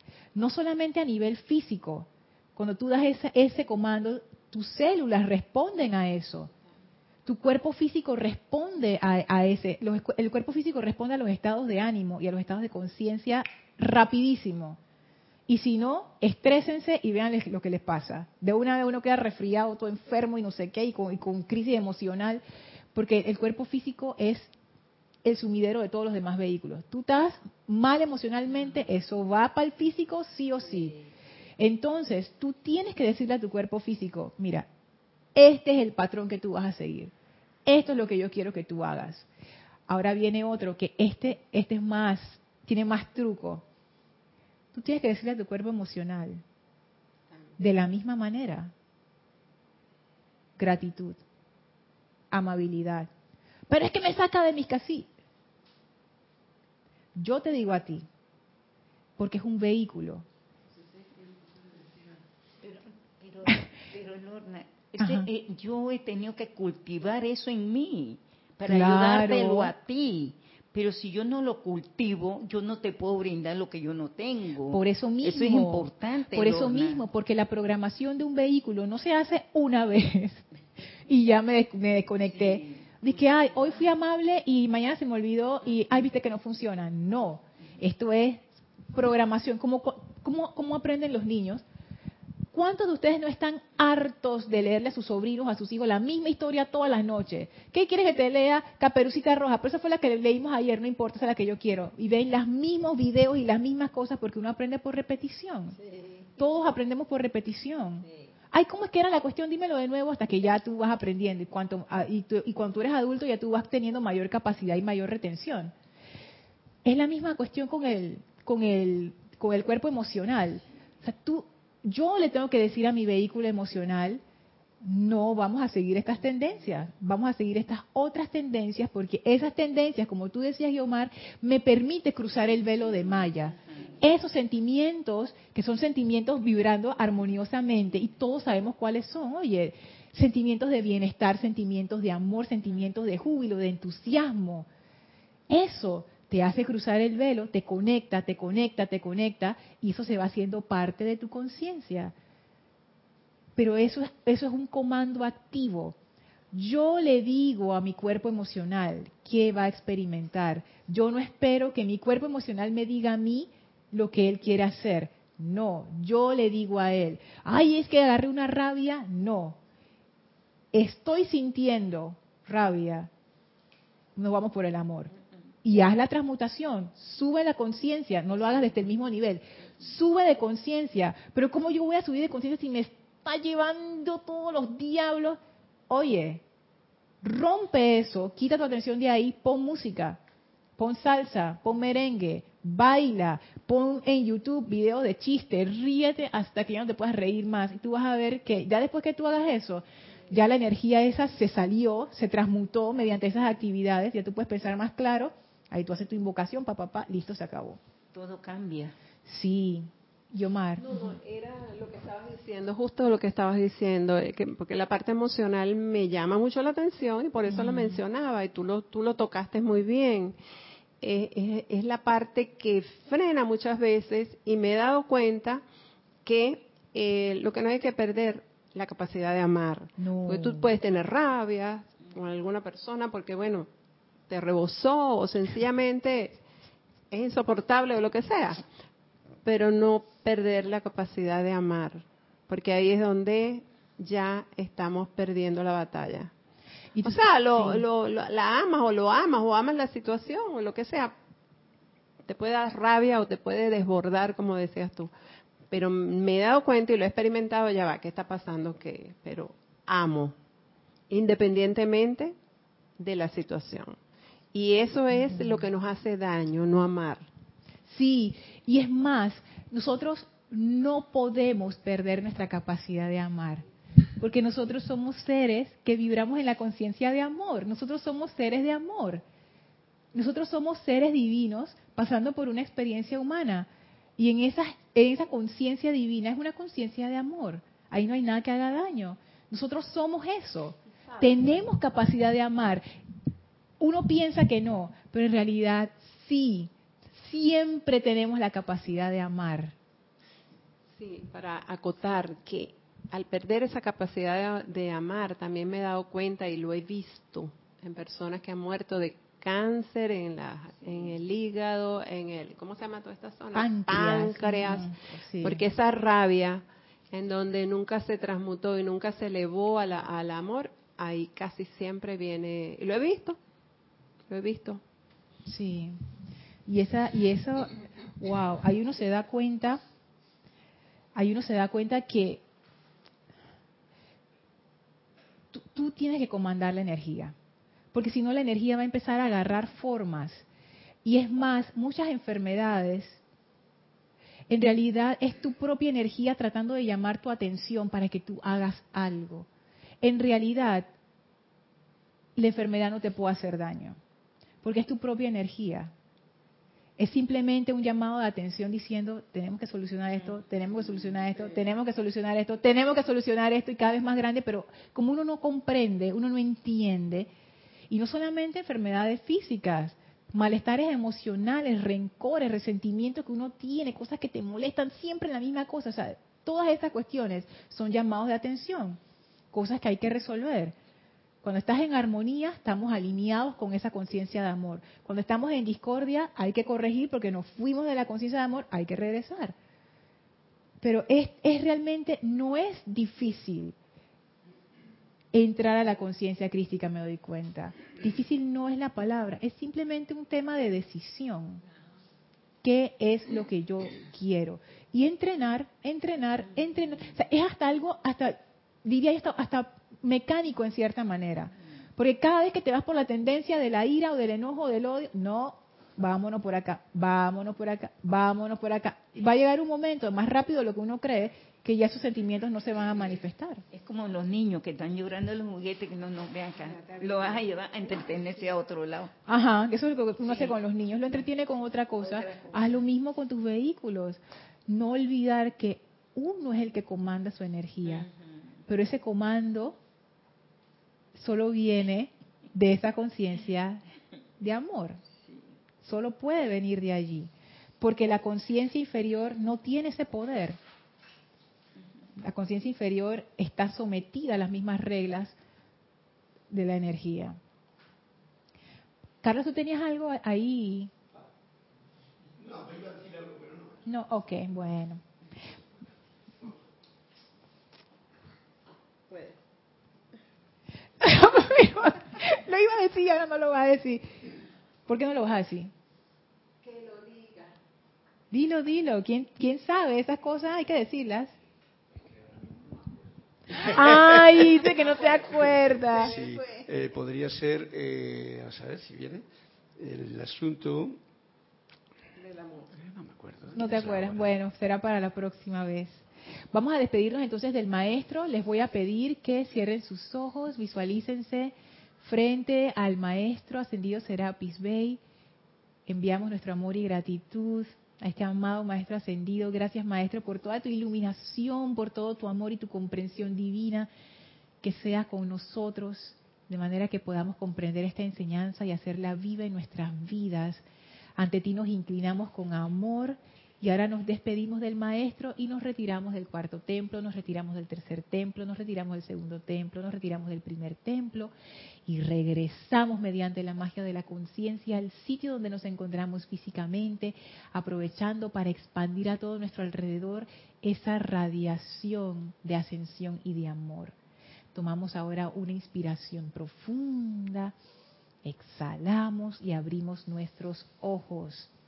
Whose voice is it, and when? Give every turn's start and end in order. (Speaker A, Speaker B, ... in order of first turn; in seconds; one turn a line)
Speaker A: 0.3-6.5
Speaker A: 7.2-14.8
Speaker A: 15.5-22.4
Speaker A: 22.9-24.5
Speaker A: 25.2-31.0
Speaker A: 31.6-34.7
Speaker A: 35.3-37.1
Speaker A: 37.6-39.3
Speaker A: 39.9-43.6
Speaker A: 44.7-46.4
Speaker A: 47.6-48.7
Speaker A: 50.6-51.2
Speaker A: 52.3-53.1
Speaker A: 53.7-55.1
Speaker A: 57.1-58.0
Speaker A: 59.2-60.2
Speaker B: 62.6-77.0
Speaker A: 65.0-65.3
Speaker A: 68.7-69.7
Speaker A: 74.7-80.5
Speaker A: 81.0-91.6
Speaker B: 82.5-82.8
Speaker A: 92.5-105.8
Speaker A: 106.3-115.7
Speaker A: 116.8-124.2
Speaker A: 124.8-144.7
Speaker A: 145.5-152.1
Speaker A: 153.6-155.9
Speaker A: 156.5-169.6
Speaker A: 170.7-173.1
Speaker A: 174.2-175.1
Speaker A: 175.6-186.4
Speaker A: 187.2-190.2
Speaker A: 190.8-207.8
Speaker B: 208.1-208.9
Speaker A: 209.2-211.1
Speaker C: 210.8-220.4
Speaker A: 217.5-218.0
Speaker C: 221.0-225.6
Speaker C: 226.2-233.7
Speaker A: 230.0-230.7
Speaker C: 234.3-236.4
Speaker C: 237.1-238.6
Speaker C: 239.4-246.3
Speaker A: 246.9-247.8
Speaker C: 247.0-251.1
Speaker C: 252.2-255.1
Speaker C: 255.7-260.4
Speaker C: 261.1-262.4
Speaker C: 263.0-264.0
Speaker C: 264.5-267.3
Speaker A: 265.2-265.6
Speaker A: 267.9-273.6
Speaker A: 274.2-279.2
Speaker A: 280.1-292.8
Speaker A: 293.8-299.8
Speaker C: 300.9-323.4
Speaker A: 313.5-315.6
Speaker C: 324.3-324.8
Speaker A: 325.4-326.0
Speaker A: 326.7-329.8
Speaker A: 331.1-332.4
Speaker A: 335.5-337.3
Speaker A: 337.9-340.4
Speaker A: 341.0-343.2
Speaker A: 344.5-349.5
Speaker A: 350.0-350.9
Speaker A: 352.4-354.0
Speaker A: 354.6-355.9
Speaker A: 357.0-367.3
Speaker A: 367.9-379.0
Speaker A: 379.5-380.7
Speaker A: 381.4-389.5
Speaker A: 390.8-393.8
Speaker A: 395.3-401.6
Speaker A: 402.6-423.6
Speaker B: 423.7-429.1
Speaker A: 429.2-438.1
Speaker B: 432.1-432.6
Speaker B: 437.9-438.3
Speaker A: 438.7-439.8
Speaker A: 441.1-443.8
Speaker A: 444.4-445.0
Speaker B: 445.2-445.5
Speaker A: 445.8-450.6
Speaker A: 452.2-455.4
Speaker A: 456.5-457.4
Speaker A: 459.2-460.9
Speaker D: 462.4-463.8
Speaker A: 463.9-465.0
Speaker C: 469.1-469.4
Speaker A: 471.0-474.2
Speaker A: 474.9-475.7
Speaker C: 476.6-477.5
Speaker A: 478.3-481.3
Speaker A: 483.5-486.1
Speaker D: 486.0-489.2
Speaker D: 489.8-491.0
Speaker C: 492.2-492.7
Speaker D: 492.7-494.3
Speaker A: 493.5-505.0
Speaker A: 505.9-513.9
Speaker A: 514.6-520.6
Speaker A: 521.2-531.3
Speaker A: 531.9-543.9
Speaker A: 544.5-547.5
Speaker A: 548.2-551.5